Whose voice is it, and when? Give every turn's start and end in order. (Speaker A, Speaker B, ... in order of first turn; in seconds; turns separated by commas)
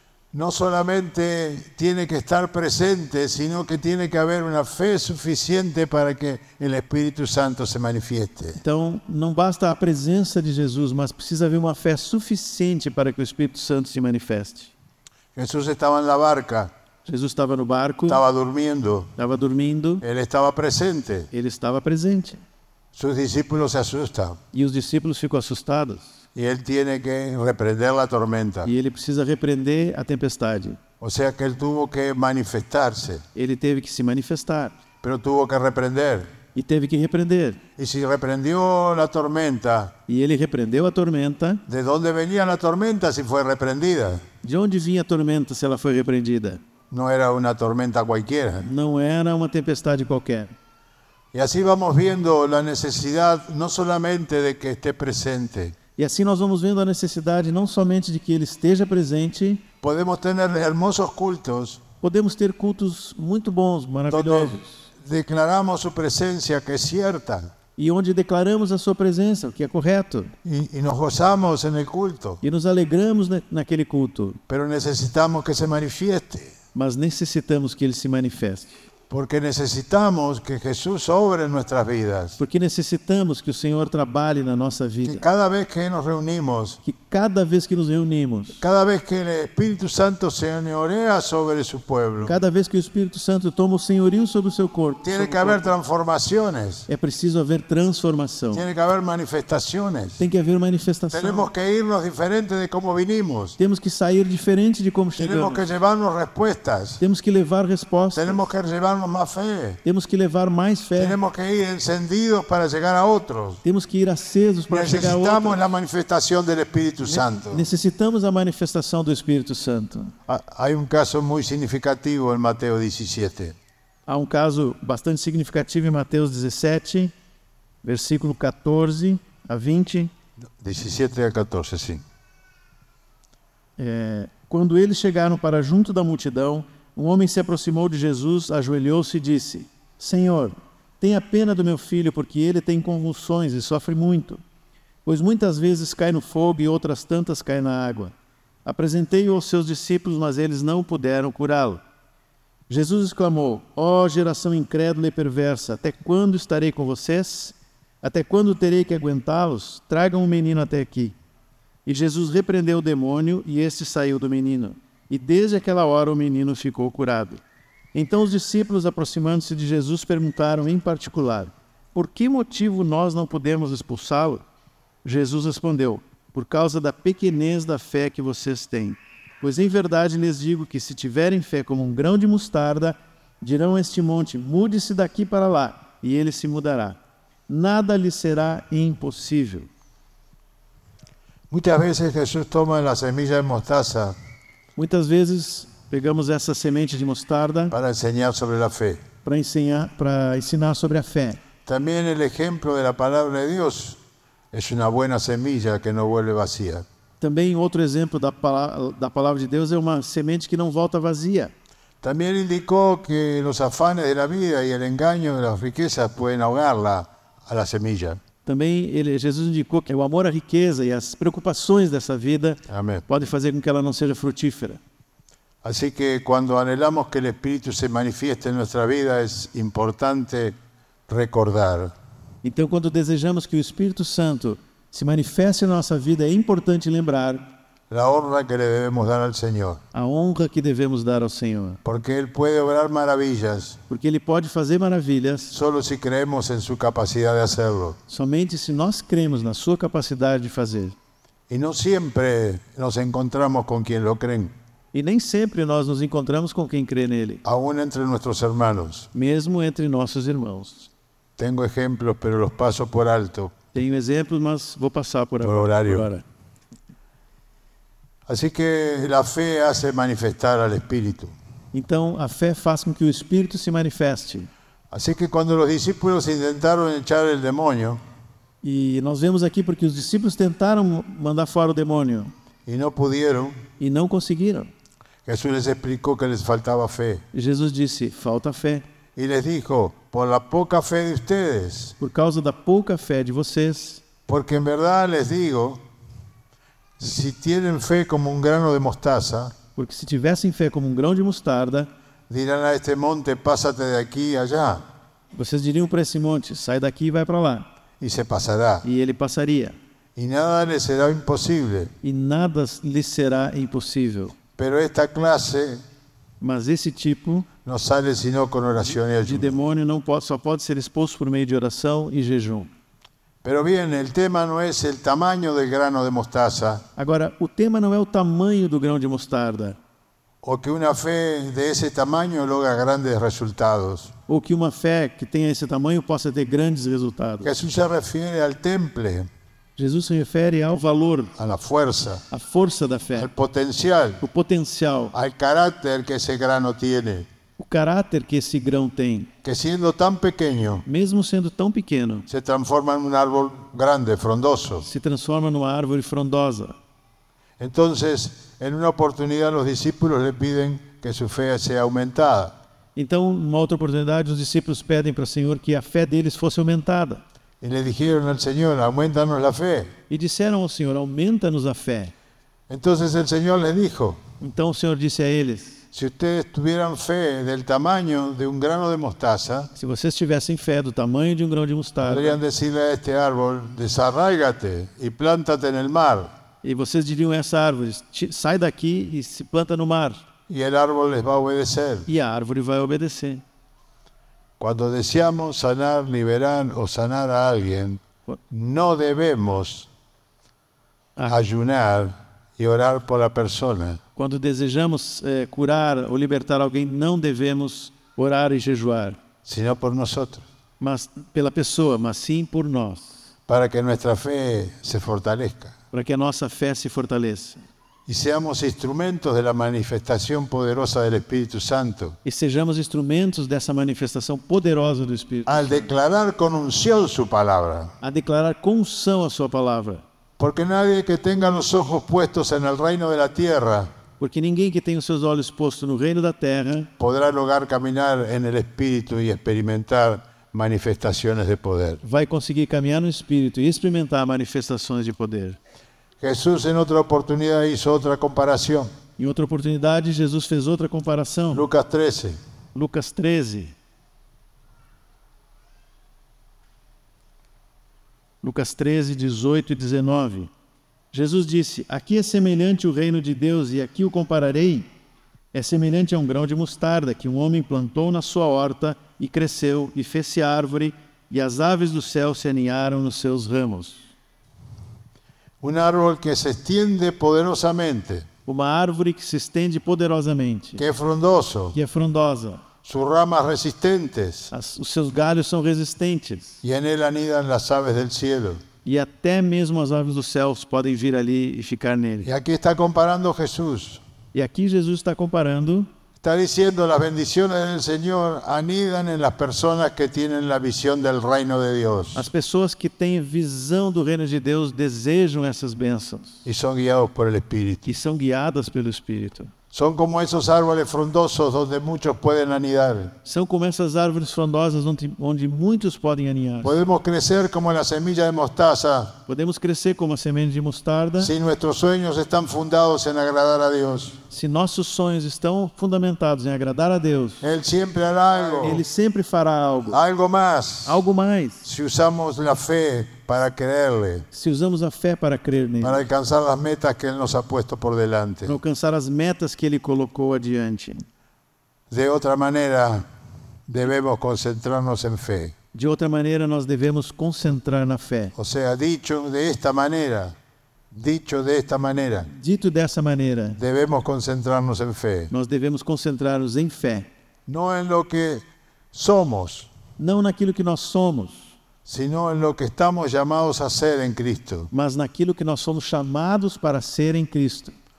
Speaker A: 0.3-8.6, Speaker B: 8.6-14.7, Speaker A: 15.3-16.7, Speaker B: 17.1-18.2, Speaker A: 18.1-19.1, Speaker B: 19.2-20.0, Speaker A: 20.0-21.3, Speaker B: 21.3-22.4, Speaker A: 22.9-24.4, Speaker B: 24.5-26.1, Speaker A: 26.3-28.7, Speaker B: 28.6-30.8, Speaker A: 31.0-33.2, Speaker B: 33.3-34.8, Speaker A: 35.0-36.3, Speaker B: 36.5-37.6, Speaker A: 37.8-39.9, Speaker B: 40.1-41.6, Speaker A: 41.7-44.2, Speaker B: 44.4-46.6, Speaker A: 46.9-48.7, Speaker B: 48.6-50.5, Speaker A: 51.3-55.8, Speaker B: 56.0-59.6, Speaker A: 59.8-61.8, Speaker B: 62.0-64.8, Speaker A: 64.1-67.5, Speaker B: 67.8-70.3, Speaker A: 70.4-72.4, Speaker B: 72.4-74.4, Speaker A: 74.5-76.5, Speaker B: 76.7-78.7, Speaker A: 79.1-82.4, Speaker B: 82.4-85.2, Speaker A: 85.0-86.8, Speaker B: 86.8-88.6, Speaker A: 88.6-92.3, Speaker B: 92.2-95.7, Speaker A: 95.0-96.8, Speaker B: 96.9-98.6, Speaker A: 98.5-100.2, Speaker B: 100.2-101.5, Speaker A: 101.1-103.6, Speaker B: 103.6-105.6, Speaker A: 105.2-107.0, Speaker B: 107.0-108.4, Speaker A: 108.1-109.8, Speaker B: 109.8-111.2, Speaker A: 111.0-113.6, Speaker B: 113.6-115.6, Speaker A: 114.7-117.7, Speaker B: 117.0-120.1, Speaker A: 120.3-123.5, Speaker B: 124.1-127.1, Speaker B: 127.8-130.1, Speaker A: 130.6-132.0, Speaker B: 133.8-144.4, Speaker B: 145.0-148.1, Speaker B: 148.6-151.8, Speaker B: 152.7-161.1, Speaker B: 161.8-167.4, Speaker B: 167.9-174.4, Speaker B: 175.0-187.0, Speaker B: 187.5-189.7, Speaker A: 191.5-194.2, Speaker B: 194.8-197.7, Speaker A: 197.7-199.0, Speaker B: 199.2-201.4, Speaker A: 201.7-204.0, Speaker A: 204.5-206.8, Speaker B: 207.2-211.5, Speaker A: 212.0-218.2, Speaker B: 218.4-224.8, Speaker A: 222.7-223.1, Speaker A: 225.6-230.6, Speaker A: 231.1-231.9, Speaker B: 232.4-237.5, Speaker A: 237.9-239.8, Speaker B: 239.9-241.8, Speaker A: 241.8-243.8, Speaker B: 243.9-245.5, Speaker A: 245.5-248.0, Speaker B: 248.1-250.9, Speaker A: 251.5-254.5, Speaker B: 254.9-257.4, Speaker A: 257.4-259.1, Speaker B: 259.1-260.9, Speaker A: 261.4-263.5, Speaker B: 263.7-266.2, Speaker A: 265.4-266.1, Speaker A: 268.3-271.3, Speaker B: 271.7-274.5, Speaker A: 274.9-278.0, Speaker B: 278.6-282.3, Speaker A: 282.6-283.6, Speaker B: 283.8-284.7, Speaker A: 285.2-287.2, Speaker B: 287.3-288.8, Speaker A: 289.1-291.9, Speaker B: 292.0-294.0, Speaker A: 294.3-295.8, Speaker A: 297.0-299.5, Speaker B: 299.7-301.9, Speaker A: 302.3-304.8, Speaker B: 305.3-307.7, Speaker A: 308.0-308.8, Speaker B: 308.8-309.8, Speaker A: 310.1-311.9, Speaker B: 312.0-314.3, Speaker A: 314.6-315.8, Speaker B: 316.4-317.5, Speaker A: 317.6-319.6, Speaker B: 319.2-322.7, Speaker A: 323.4-326.8, Speaker B: 326.9-329.8, Speaker A: 330.4-334.1, Speaker B: 334.3-337.5, Speaker A: 337.4-339.3, Speaker B: 339.8-341.3, Speaker A: 341.4-342.2, Speaker B: 342.3-343.3, Speaker A: 343.1-344.2, Speaker B: 344.2-345.1, Speaker A: 345.1-347.3, Speaker B: 347.6-349.3, Speaker A: 349.4-350.8, Speaker B: 350.9-352.3, Speaker A: 352.3-354.9, Speaker B: 354.8-356.7, Speaker A: 357.6-362.6, Speaker B: 362.9-367.2, Speaker A: 367.6-369.9, Speaker B: 370.1-372.1, Speaker A: 372.7-374.2, Speaker B: 374.4-375.8, Speaker A: 375.9-379.7, Speaker B: 379.8-382.4, Speaker A: 382.0-386.3, Speaker B: 386.6-390.2, Speaker A: 390.5-392.1, Speaker B: 392.1-393.4, Speaker A: 394.6-399.9, Speaker A: 401.2-404.0, Speaker B: 404.1-409.2, Speaker A: 409.4-410.4, Speaker B: 410.8-413.1, Speaker A: 413.5-415.7, Speaker B: 415.9-417.6, Speaker A: 418.1-422.2, Speaker B: 422.2-425.8, Speaker A: 425.4-427.9, Speaker B: 428.0-430.0, Speaker A: 430.4-433.9, Speaker B: 434.2-436.9, Speaker A: 437.0-442.0, Speaker B: 442.0-445.6, Speaker A: 446.2-448.9, Speaker B: 449.2-451.6, Speaker A: 451.5-452.4, Speaker B: 452.7-453.7, Speaker B: 458.4-460.5, Speaker B: 461.1-464.9, Speaker B: 465.5-474.1, Speaker A: 475.6-478.3, Speaker B: 478.4-480.8, Speaker A: 480.8-481.8, Speaker B: 481.7-482.6, Speaker A: 482.8-484.5, Speaker B: 484.5-486.6, Speaker A: 486.6-488.6, Speaker B: 488.8-492.3, Speaker A: 492.2-494.0, Speaker B: 494.3-495.9, Speaker A: 496.2-502.3, Speaker B: 502.1-506.4, Speaker A: 506.4-507.9, Speaker B: 507.8-509.5, Speaker A: 509.7-513.1, Speaker B: 513.2-516.8, Speaker A: 516.6-519.2, Speaker B: 519.3-521.3, Speaker A: 521.2-524.2, Speaker B: 524.3-527.4, Speaker A: 527.4-528.8, Speaker B: 528.6-530.0, Speaker A: 529.9-531.0, Speaker B: 530.9-531.6, Speaker A: 531.6-534.3, Speaker B: 534.3-536.0, Speaker A: 535.8-538.6, Speaker B: 538.5-541.0, Speaker A: 541.9-543.0, Speaker A: 543.7-545.5, Speaker B: 545.7-548.3, Speaker A: 548.4-550.3, Speaker A: 550.9-552.3, Speaker B: 552.3-553.6, Speaker A: 553.6-555.3, Speaker B: 555.3-557.1, Speaker A: 557.5-559.7, Speaker B: 560.0-561.5, Speaker A: 561.9-564.7, Speaker B: 564.7-567.7